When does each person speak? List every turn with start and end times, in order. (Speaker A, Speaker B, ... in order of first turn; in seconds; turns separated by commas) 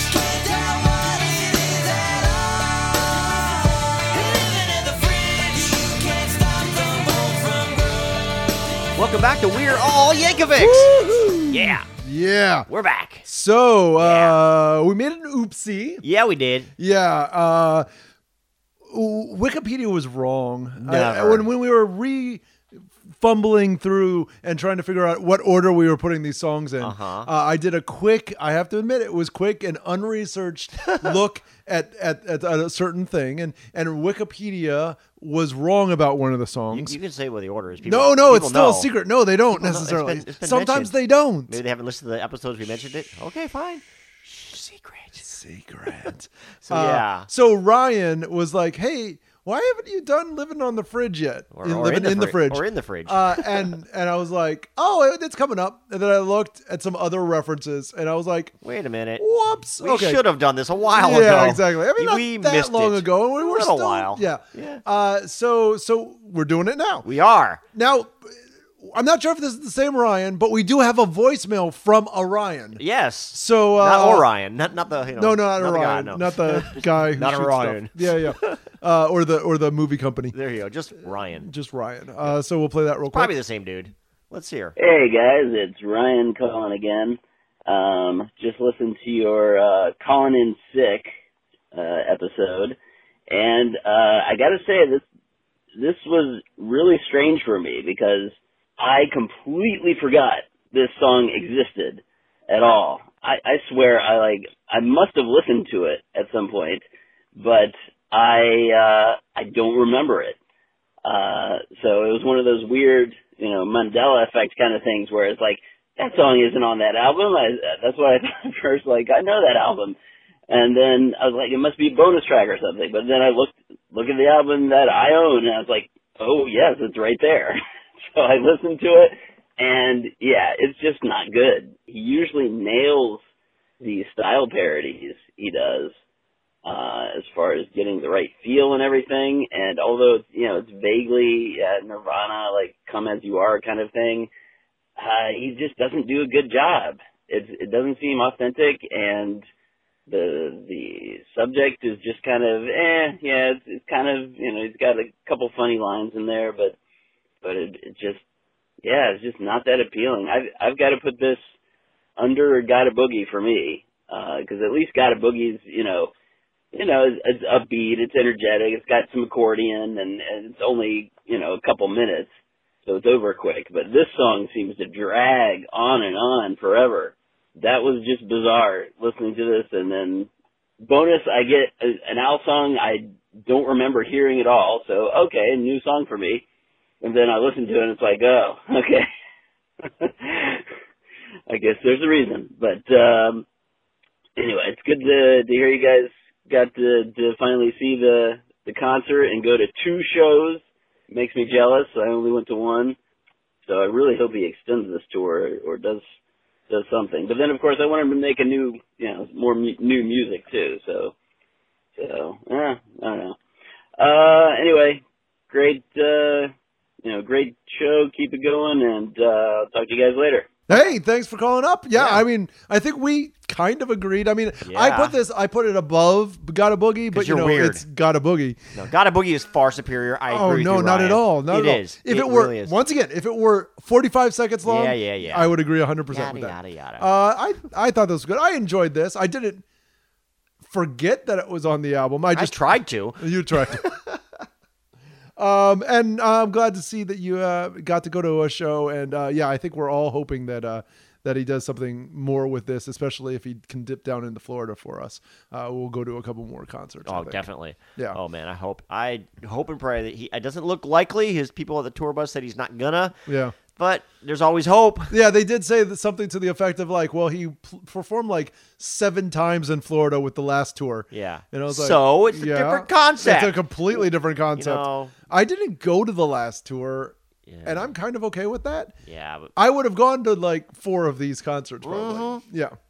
Speaker A: 1.6-2.0, Speaker A: 4.1-5.2, Speaker A: 6.3-7.1, Speaker B: 8.9-10.9, Speaker C: 10.6-12.7, Speaker B: 11.5-11.9, Speaker B: 12.7-13.3, Speaker C: 13.2-16.0, Speaker B: 14.0-14.4, Speaker B: 16.0-16.7, Speaker C: 16.8-17.9, Speaker C: 18.9-22.4, Speaker B: 20.8-21.4, Speaker C: 23.1-37.0, Speaker B: 26.8-27.3, Speaker B: 30.8-31.1, Speaker B: 36.7-38.9, Speaker C: 37.8-41.6, Speaker B: 39.5-40.9, Speaker B: 41.5-45.2, Speaker C: 45.2-58.5, Speaker B: 46.6-47.3, Speaker B: 51.5-53.8, Speaker B: 58.6-59.2, Speaker C: 59.2-60.2, Speaker B: 59.8-64.8, Speaker C: 60.9-67.1, Speaker B: 67.0-67.6, Speaker C: 67.7-72.8, Speaker B: 72.8-78.7, Speaker C: 73.3-74.3, Speaker C: 75.2-80.3, Speaker B: 80.3-81.5, Speaker C: 81.4-83.3, Speaker B: 83.1-84.8, Speaker A: 84.8-91.1, Speaker A: 91.7-92.8, Speaker A: 93.3-95.0, Speaker A: 95.8-106.8, Speaker A: 107.3-110.4, Speaker A: 111.0-120.0, Speaker A: 120.5-127.6, Speaker A: 128.1-133.2, Speaker A: 133.8-135.9, Speaker A: 136.6-144.3, Speaker A: 145.0-149.4, Speaker A: 150.1-156.8, Speaker A: 157.4-158.2, Speaker A: 158.8-161.4, Speaker A: 162.2-166.1, Speaker A: 166.7-172.3, Speaker A: 172.8-180.3, Speaker A: 180.8-186.4, Speaker A: 187.0-189.0, Speaker A: 190.0-190.6, Speaker A: 191.5-193.4, Speaker A: 194.3-203.0, Speaker A: 203.7-206.0, Speaker A: 206.7-211.1, Speaker A: 212.0-213.3, Speaker A: 214.0-216.5, Speaker A: 217.0-220.5, Speaker C: 220.7-228.6, Speaker B: 221.9-222.2, Speaker B: 224.6-225.2, Speaker B: 227.1-227.8, Speaker B: 228.7-232.8, Speaker C: 230.3-239.6, Speaker B: 234.6-235.5, Speaker B: 236.1-237.1, Speaker C: 240.6-242.6, Speaker B: 242.3-244.0, Speaker C: 243.2-244.0, Speaker C: 245.4-257.4, Speaker B: 257.1-263.2, Speaker C: 263.3-263.6, Speaker B: 263.7-265.1, Speaker C: 265.1-278.9, Speaker B: 271.1-274.1, Speaker B: 274.6-275.1, Speaker B: 277.4-277.9, Speaker B: 279.1-279.5, Speaker C: 279.6-282.8, Speaker B: 281.8-282.4